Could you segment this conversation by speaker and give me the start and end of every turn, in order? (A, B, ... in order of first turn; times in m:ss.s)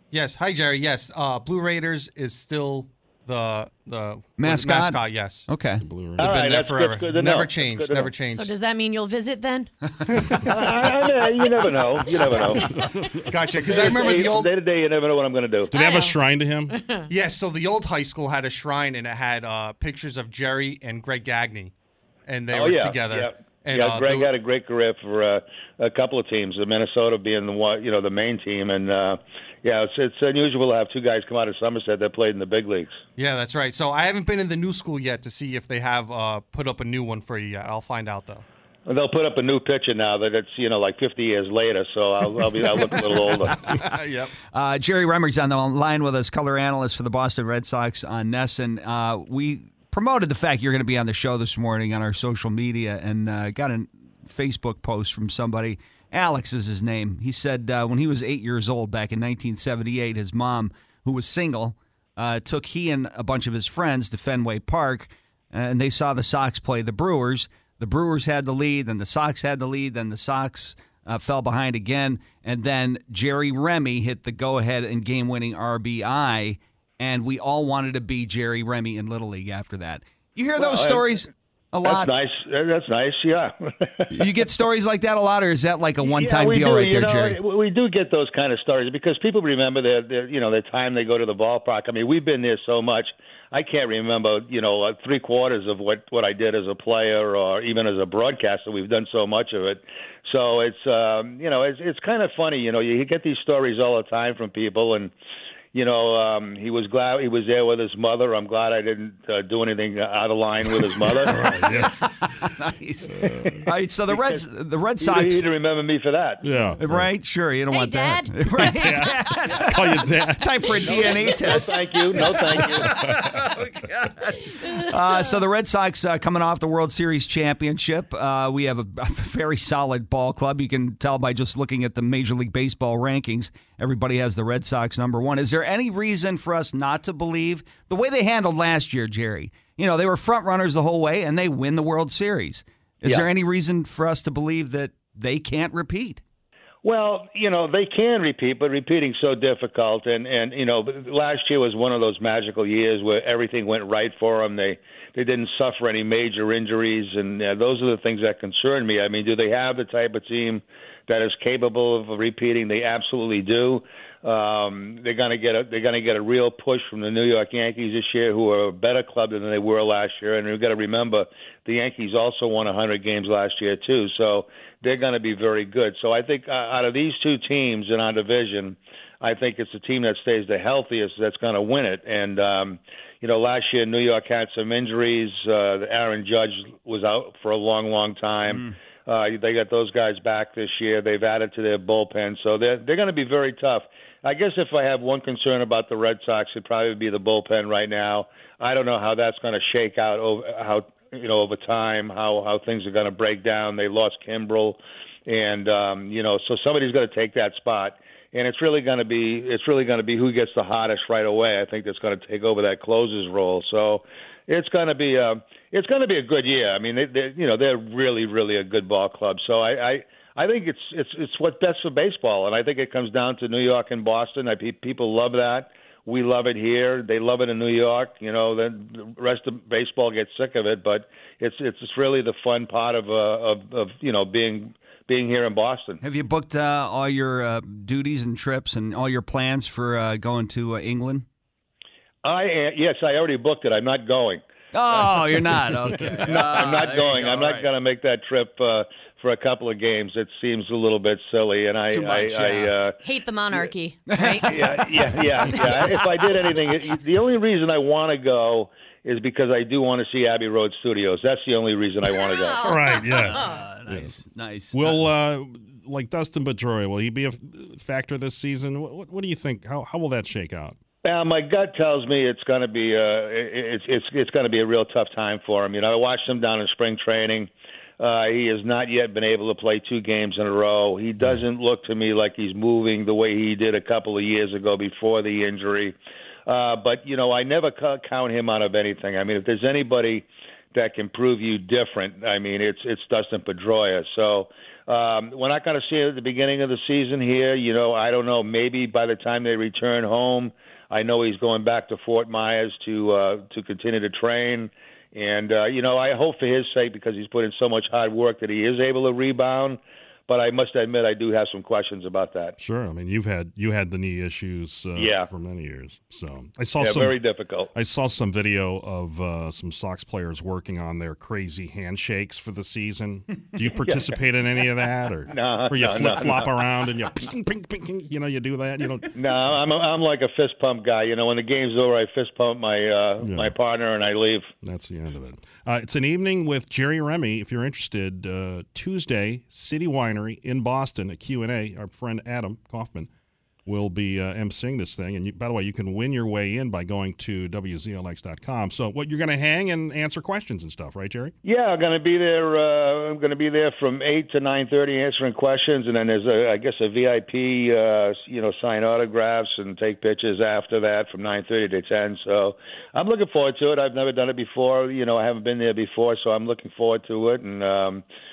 0:00.1-0:05.5 A
0:04.4-0:05.8 B
0:05.8-0:06.4 C
0:06.2-0:08.1 D
0:06.2-0:08.5 A
0:08.3-0:09.7 E
0:10.5-0:12.6 D
0:12.5-0:13.8 C
0:13.3-0:14.5 A
0:13.6-0:15.7 D
0:15.7-0:16.7 C
0:15.7-0:16.2 E
0:16.7-0:17.0 E
0:17.1-0:21.7 A
0:22.2-0:24.3 A
0:22.5-0:33.0 D
0:33.2-0:38.4 A
0:38.9-0:43.6 D
0:43.8-0:44.3 A
0:44.5-1:22.1 B
1:20.6-1:21.2 D
1:21.8-1:24.3 D
1:24.1-1:27.4 B
1:26.0-1:45.1 D
1:45.7-1:51.4 D
1:50.8-1:53.7 C
1:51.3-1:55.4 B
1:54.1-1:54.4 D
1:55.0-1:56.4 D
1:56.4-1:57.1 C
1:56.8-2:26.2 B
1:57.7-1:59.5 E
1:58.6-2:01.7 C
2:01.3-2:03.0 D
2:02.6-2:03.6 C
2:26.8-3:56.0 D
3:08.5-3:08.7 B
3:56.0-4:01.2 B
4:02.2-4:04.4 D
4:04.7-4:07.7 B
4:05.3-4:06.4 C
4:06.2-4:13.0 D
4:11.9-4:12.7 B
4:13.0-4:14.5 E
4:14.1-4:16.3 B
4:14.4-4:22.7 D
4:22.2-4:23.6 E
4:22.6-4:24.2 C
4:23.0-4:25.0 B
4:24.7-4:30.8 C
4:31.0-4:46.0 D
4:46.5-5:12.6 D
5:12.6-5:17.2 C
5:15.0-5:15.3 D
5:16.8-5:17.7 D
5:17.7-5:29.1 C
5:23.8-5:24.2 D
5:25.3-5:26.5 D
5:29.1-5:34.5 D
5:33.2-5:33.5 C
5:34.6-5:43.1 C
5:43.7-5:51.3 C
5:51.4-6:08.0 D